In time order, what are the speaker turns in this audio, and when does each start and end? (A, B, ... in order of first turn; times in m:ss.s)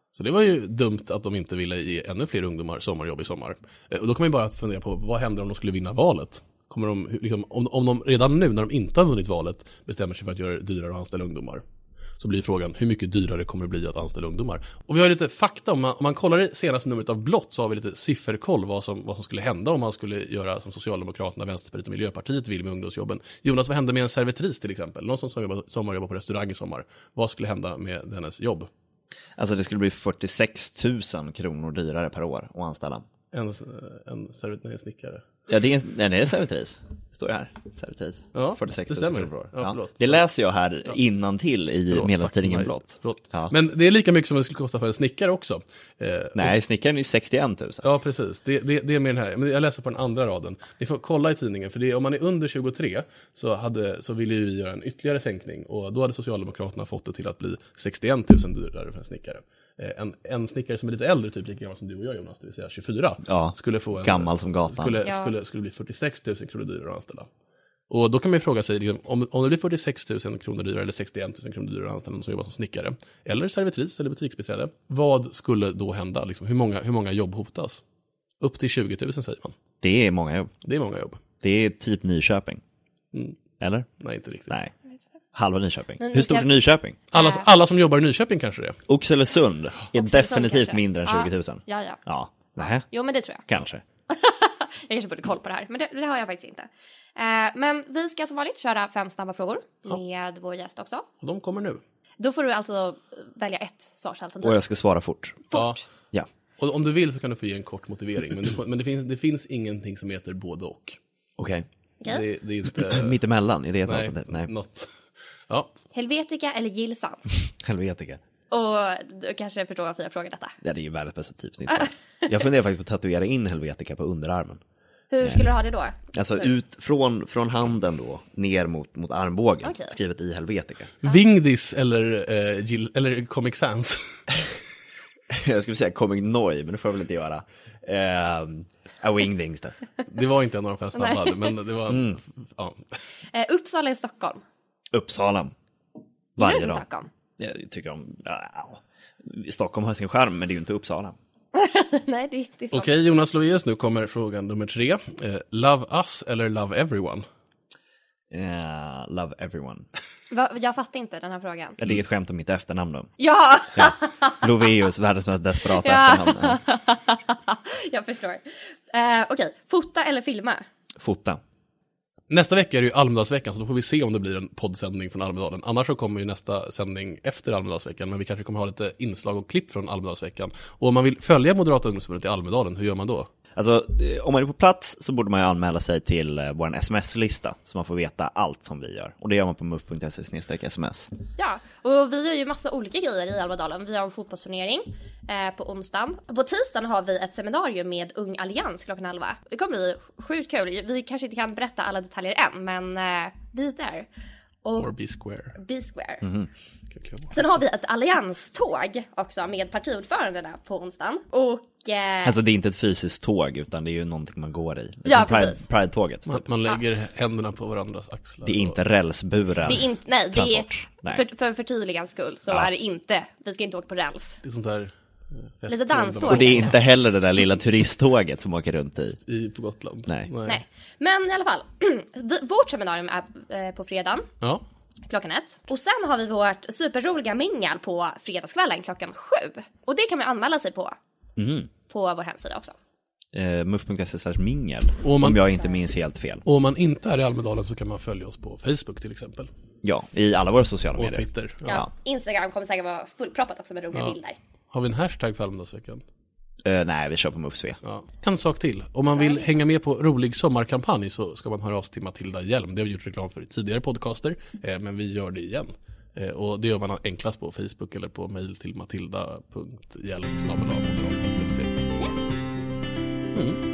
0:00.2-0:11.6 A
0:12.2-0:28.7 A
0:29.4-0:33.0 B
0:33.3-0:35.2 A
0:35.5-0:43.5 B
0:38.4-0:40.2 A
0:41.9-0:46.5 A
0:46.4-0:47.9 B
0:47.8-1:07.3 A
1:03.3-1:05.0 B
1:05.0-1:05.3 C
1:07.9-1:17.8 A
1:18.4-1:19.6 A
1:19.8-1:20.5 B
1:20.6-1:21.2 A
1:21.4-1:22.6 B
1:23.6-1:23.9 B
1:24.0-1:24.6 A
1:25.4-1:27.0 B
1:26.0-1:26.6 C
1:27.1-1:28.8 A
1:27.1-1:27.4 C
1:28.9-1:32.9 B
1:29.9-1:32.0 C
1:32.9-1:33.5 C
1:33.5-1:33.8 B
1:34.1-1:41.1 C
1:41.2-1:41.8 A
1:42.2-1:44.6 C
1:44.4-1:45.5 B
1:45.5-1:45.8 C
1:45.5-1:45.8 A
1:46.6-1:51.0 A
1:51.4-1:51.7 B
1:52.0-1:53.2 A
1:52.9-1:54.5 B
1:53.9-1:54.9 A
1:55.9-1:57.4 C
1:57.6-1:58.2 B
1:58.5-2:00.6 C
2:00.6-2:04.6 B
2:05.1-2:06.5 C
2:06.1-2:10.9 B
2:09.6-2:10.0 C
2:11.0-2:14.3 A
2:15.3-2:19.8 B
2:20.1-2:22.8 A
2:21.0-2:21.6 C
2:21.9-2:22.2 B
2:23.3-2:24.4 C
2:24.9-2:25.5 B
2:26.4-2:26.8 B
2:26.4-2:27.1 C
2:27.4-2:31.2 B
2:31.5-2:32.9 C
2:32.7-2:37.2 A
2:38.3-2:39.9 B
2:40.3-2:41.8 C
2:41.8-2:43.1 B
2:43.2-2:44.4 C
2:43.8-2:46.6 B
2:45.7-2:50.6 C
2:51.0-2:51.4 B
2:52.3-3:03.3 A
3:03.6-3:11.1 B
3:11.4-3:24.1 C
3:24.6-3:24.9 C
3:24.8-3:25.6 A
3:25.6-3:26.3 C
3:26.2-3:26.5 B
3:26.9-3:27.4 A
3:27.3-3:32.4 C
3:32.2-3:36.4 B
3:35.1-3:35.6 C
3:36.3-3:38.8 A
3:38.4-3:41.2 B
3:39.6-3:44.4 C
3:44.4-3:44.9 A
3:45.6-3:46.8 A
3:45.7-3:46.8 C
3:46.3-3:49.2 B
3:49.3-3:50.6 A
3:50.4-3:54.3 C
3:55.1-4:01.0 C
4:01.4-4:01.7 B
4:01.9-4:02.7 C
4:03.3-4:06.4 B
4:05.0-4:05.4 A
4:06.4-4:09.5 A
4:09.8-4:11.9 B
4:11.0-4:11.8 A
4:11.6-4:14.4 C
4:14.7-4:16.0 A
4:16.6-4:17.8 B
4:17.8-4:31.8 A
4:19.2-4:19.6 C
4:33.3-4:33.6 A